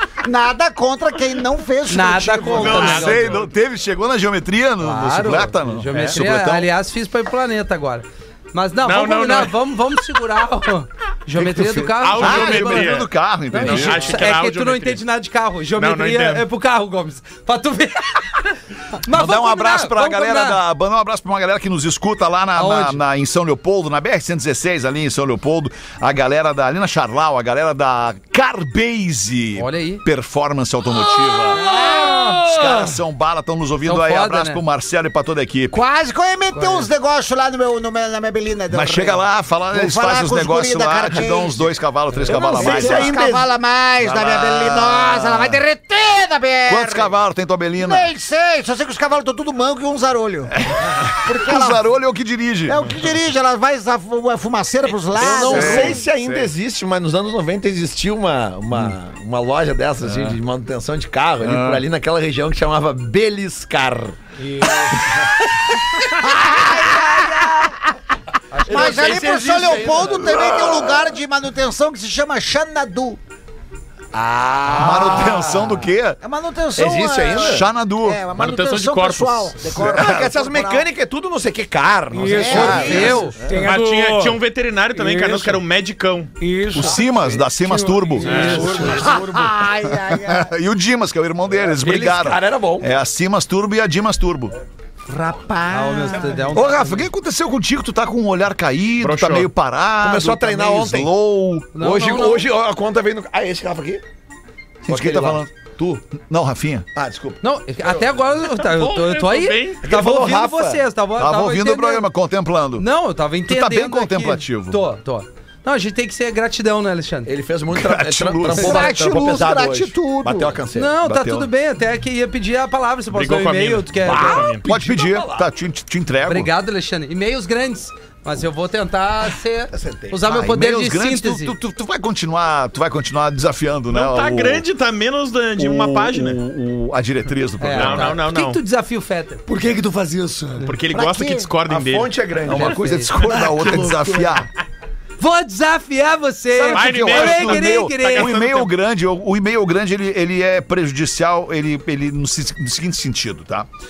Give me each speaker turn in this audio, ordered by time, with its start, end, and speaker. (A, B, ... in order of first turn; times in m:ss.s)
0:00.2-0:03.0 A
0:01.9-0:03.4 B
0:02.5-0:06.7 C
0:02.7-0:03.5 D
0:04.8-0:18.4 B
0:05.9-0:06.2 D
0:08.8-0:09.6 D
0:11.3-0:14.2 C
0:12.0-0:13.1 D
0:13.6-0:15.0 D
0:15.8-0:16.4 D
0:18.9-0:20.6 B
0:19.1-0:31.6 C
0:22.5-0:23.0 B
0:29.6-0:30.0 B
0:31.5-0:32.5 A
0:31.6-0:32.4 B
0:32.4-0:35.8 C
0:33.8-0:34.6 B
0:35.7-0:41.7 A
0:36.5-0:36.9 B
0:38.7-0:43.2 C
0:42.2-0:47.1 A
0:42.3-0:43.5 E
0:44.0-0:45.6 C
0:46.7-0:48.1 C
0:47.8-0:51.8 A
0:50.6-0:52.9 C
0:52.7-0:56.0 A
0:55.2-1:04.2 E
0:55.4-0:56.5 C
1:00.0-1:00.4 C
1:01.4-1:01.8 C
1:04.4-1:05.1 F
1:06.0-1:07.9 A
1:08.6-1:13.2 A
1:08.6-1:11.0 E
1:14.1-1:15.9 E
1:14.7-1:16.2 C
1:16.2-1:20.9 A
1:16.8-1:17.7 E
1:17.3-1:18.2 C
1:18.3-1:19.6 D
1:19.8-1:20.2 C
1:19.8-1:23.7 E
1:22.1-1:24.4 F
1:22.3-1:23.3 A
1:22.6-1:23.4 B
1:23.6-1:26.3 D
1:24.9-1:25.6 F
1:26.4-1:29.5 F
1:26.7-1:34.5 C
1:28.2-1:28.9 D
1:28.3-1:28.9 B
1:28.3-1:28.9 E
1:28.9-1:30.5 A
1:31.5-1:32.9 E
1:35.1-1:36.6 A
1:35.7-1:37.1 B
1:36.5-1:41.7 C
1:39.0-1:39.5 D
1:40.0-1:41.1 E
1:41.7-1:42.5 B
1:41.8-1:44.0 E
1:44.8-1:46.9 C
1:44.9-1:45.4 E
1:46.9-1:48.0 E
1:47.4-1:52.1 B
1:48.4-1:49.8 D
1:49.8-1:50.8 E
1:51.2-1:52.8 C
1:52.8-1:57.3 B
1:53.4-1:54.8 C
1:57.2-2:00.9 E
1:57.7-1:59.1 C
1:58.5-2:00.6 A
2:00.7-2:04.5 B
2:01.0-2:01.5 C
2:03.1-2:04.6 D
2:04.0-2:05.4 E
2:04.6-2:06.5 C
2:06.2-2:11.5 B
2:09.7-2:10.2 E
2:10.2-2:14.6 C
2:13.9-2:16.4 D
2:15.6-2:18.2 C
2:17.6-2:19.4 B
2:17.7-2:18.6 D
2:19.5-2:20.8 F
2:20.6-2:22.1 D
2:20.9-2:21.5 A
2:21.6-2:22.8 E
2:22.4-2:24.5 C
2:22.5-2:23.2 B
2:23.2-2:24.0 F
2:25.2-2:28.3 B
2:26.6-2:33.7 C
2:26.7-2:28.7 D